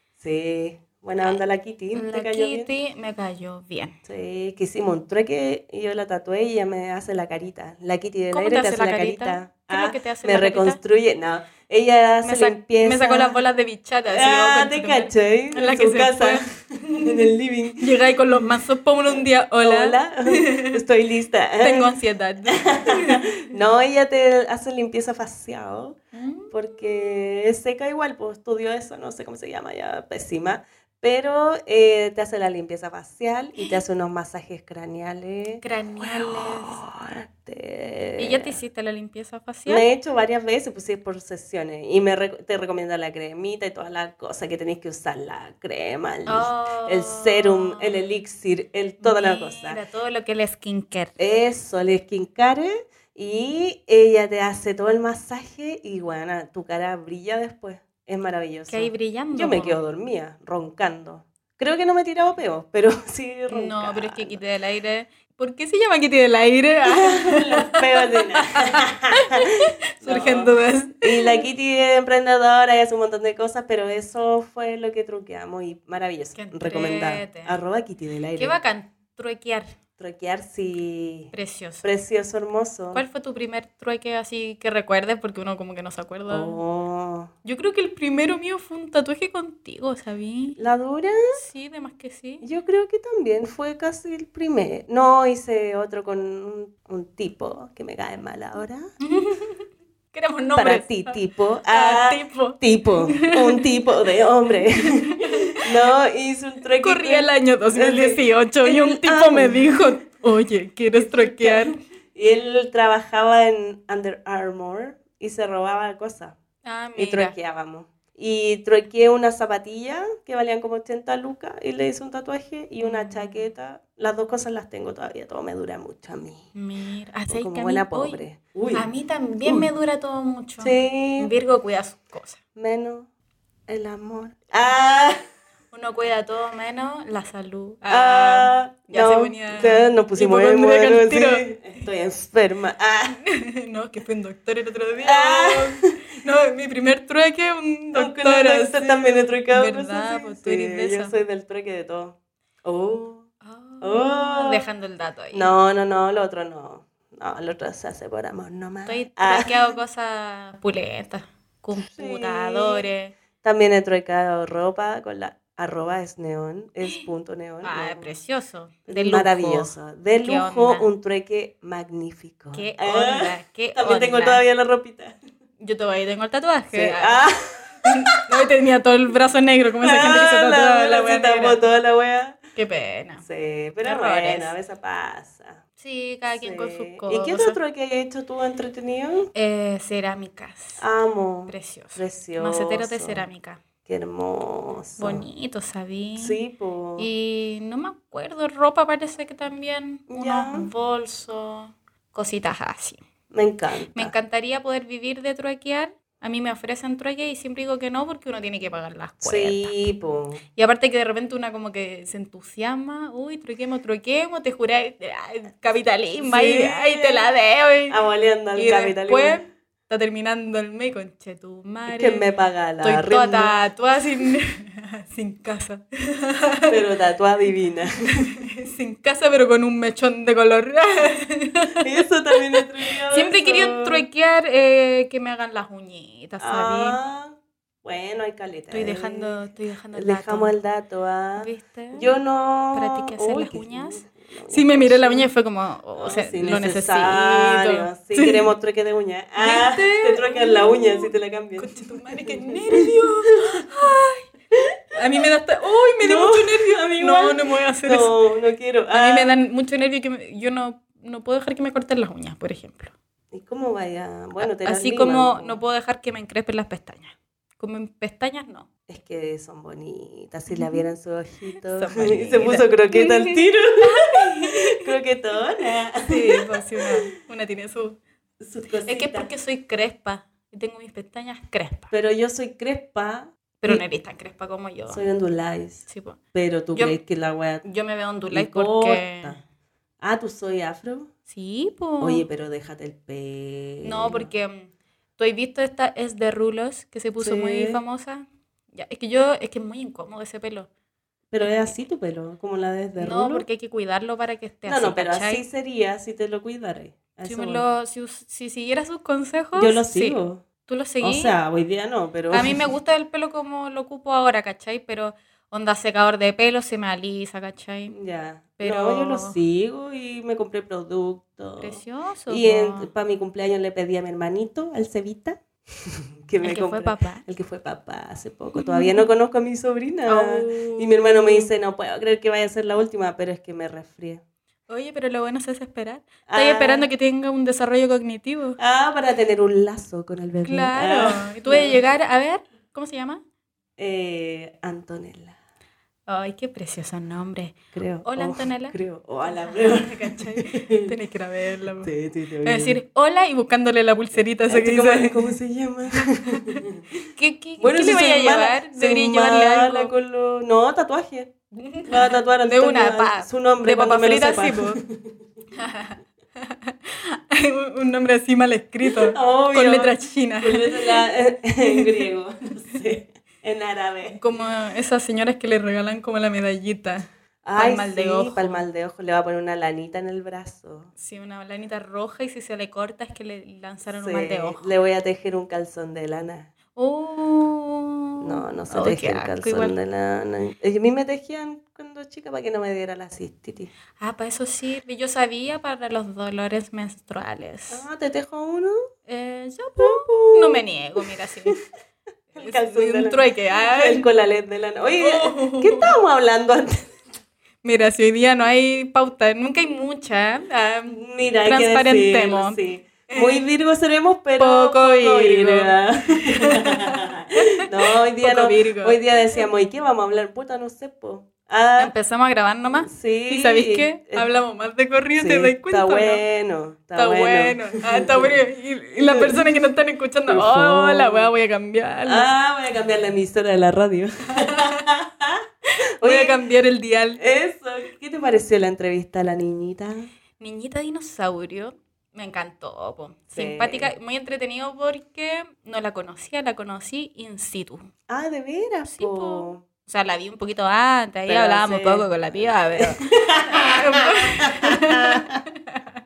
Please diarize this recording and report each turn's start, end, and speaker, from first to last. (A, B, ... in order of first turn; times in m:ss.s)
0:00.2-0:02.7 A
0:01.9-0:04.0 B
0:04.0-0:13.4 A
0:08.3-0:10.8 B
0:12.2-0:20.8 B
0:14.1-0:18.4 A
0:19.1-0:21.9 A
0:21.6-0:23.4 B
0:22.5-0:26.0 A
0:26.1-0:26.5 B
0:26.5-0:38.6 A
0:35.6-0:36.8 B
0:38.2-0:39.8 B
0:39.7-0:49.8 A
0:46.3-0:48.0 B
0:49.0-0:51.1 B
0:51.2-1:04.4 A
0:58.7-0:59.8 B
1:03.5-1:11.4 B
1:06.9-1:18.6 A
1:16.3-1:17.6 B
1:18.4-1:19.7 B
1:20.0-1:21.3 A
1:21.3-1:21.8 B
1:21.8-1:23.0 A
1:22.9-1:26.6 B
1:26.3-1:27.3 A
1:27.4-1:30.6 B
1:30.6-1:31.4 A
1:31.3-1:32.4 B
1:32.4-1:38.8 A
1:39.0-1:41.2 B
1:40.6-1:49.8 A
1:41.7-1:43.6 B
1:44.8-1:45.6 B
1:46.8-1:51.8 B
1:51.0-1:56.4 A
1:56.6-1:57.3 B
1:57.0-2:06.4 A
2:02.8-2:03.5 B
2:06.5-2:08.2 B
2:07.3-2:08.9 A
2:08.7-2:12.4 B
2:09.4-2:09.7 A
2:10.6-2:11.3 A
2:12.6-2:13.1 A
2:13.7-2:15.2 A
2:15.7-2:21.4 B
2:17.9-2:23.2 A
2:23.2-2:31.1 B
2:25.0-2:25.8 A
2:27.9-2:33.3 A
2:33.4-2:35.5 B
2:33.8-2:34.6 A
2:35.3-2:39.7 A
2:38.8-2:43.2 B
2:41.8-2:42.8 A
2:43.4-2:48.1 A
2:47.6-2:50.9 B
2:48.9-2:55.2 A
2:52.5-2:54.4 B
2:55.6-2:57.2 B
2:56.7-2:58.0 A
2:57.8-3:01.6 B
2:59.8-3:02.4 A
3:02.6-3:03.2 B
3:03.2-3:05.6 A
3:03.8-3:04.5 B
3:05.8-3:07.6 B
3:06.3-3:09.3 A
3:09.3-3:10.8 B
3:10.8-3:13.2 A
3:11.5-3:13.6 B
3:13.8-3:15.2 A
3:15.0-3:16.4 B
3:16.2-3:17.1 A
3:17.0-3:23.0 B
3:20.1-3:20.6 A
3:23.3-3:24.1 A
3:23.9-3:29.8 B
3:29.2-3:30.4 A
3:30.6-3:38.0 B
3:36.2-3:37.3 A
3:37.9-3:39.4 A
3:38.5-3:42.2 B
3:41.9-3:43.6 A
3:42.8-3:46.8 B
3:46.7-3:48.3 A
3:48.2-3:57.0 B
3:51.8-3:54.0 A
3:56.4-3:59.4 A
3:58.7-4:00.5 B
3:59.9-4:05.3 A
4:01.4-4:02.1 B
4:02.7-4:08.5 B
4:06.0-4:12.9 A
4:09.4-4:14.3 B
4:14.9-4:18.1 B
4:16.0-4:19.4 A
4:18.9-4:22.9 B
4:23.3-4:25.6 A
4:24.4-4:28.7 B
4:28.9-4:36.4 A
4:30.5-4:30.8 B
4:31.6-4:34.9 B
4:36.0-4:38.0 B
4:38.4-4:39.3 A
4:38.8-4:41.9 B
4:41.9-4:43.8 A
4:43.6-4:45.0 B
4:44.9-4:47.6 A
4:45.9-4:46.2 B
4:47.6-4:49.4 B
4:48.3-4:49.4 A
4:50.0-4:51.1 A
4:51.3-4:52.2 B
4:52.0-4:54.3 A
4:53.8-5:00.7 B
4:57.2-4:57.8 A
5:01.3-5:03.4 A
5:01.4-5:01.8 B
5:03.0-5:05.4 B
5:04.6-5:07.6 A
5:07.2-5:11.4 B
5:09.6-5:10.4 A
5:11.0-5:12.6 A
5:12.3-5:18.0 B
5:17.9-5:34.2 A
5:18.6-5:19.4 B
5:21.6-5:22.9 B
5:26.4-5:27.2 B
5:28.5-5:29.0 B
5:30.1-5:31.5 B
5:34.7-5:38.6 B
5:36.3-5:36.9 A
5:38.6-5:41.8 A
5:40.4-5:43.2 B
5:43.8-5:45.4 A
5:46.1-5:48.8 B
5:47.7-5:50.9 A
5:49.3-5:51.9 B
5:51.8-5:52.8 A
5:52.4-5:55.4 B
5:54.5-5:56.9 A
5:55.9-5:56.6 B
5:57.1-5:59.9 B
5:57.6-6:01.3 A
6:01.5-6:04.8 B
6:01.8-6:05.0 A
6:05.5-6:11.0 B
6:08.8-6:14.2 A
6:11.6-6:12.0 B
6:14.1-6:18.6 B
6:17.4-6:20.9 A
6:21.0-6:24.6 B
6:24.0-6:26.5 A
6:26.7-6:29.8 B
6:28.2-6:33.7 A
6:34.0-6:37.8 B
6:37.7-6:38.8 A
6:39.1-6:41.6 B
6:39.8-6:41.6 A
6:42.3-6:46.9 A
6:42.4-6:44.1 B
6:45.0-6:45.9 B
6:47.6-6:52.6 B
6:50.9-7:01.9 A
6:53.1-6:53.4 B
6:54.4-6:59.4 B
7:01.8-7:06.2 B
7:02.7-7:04.3 A
7:05.2-7:08.4 A
7:06.9-7:12.3 B
7:09.0-7:09.4 A
7:10.3-7:11.3 A
7:12.0-7:15.4 A
7:14.4-7:14.8 B
7:16.0-7:16.4 A
7:16.0-7:17.2 B
7:17.2-7:20.1 A
7:20.4-7:27.9 B
7:23.3-7:23.9 A
7:28.1-7:29.6 A
7:28.9-7:35.8 B
7:31.3-7:35.4 A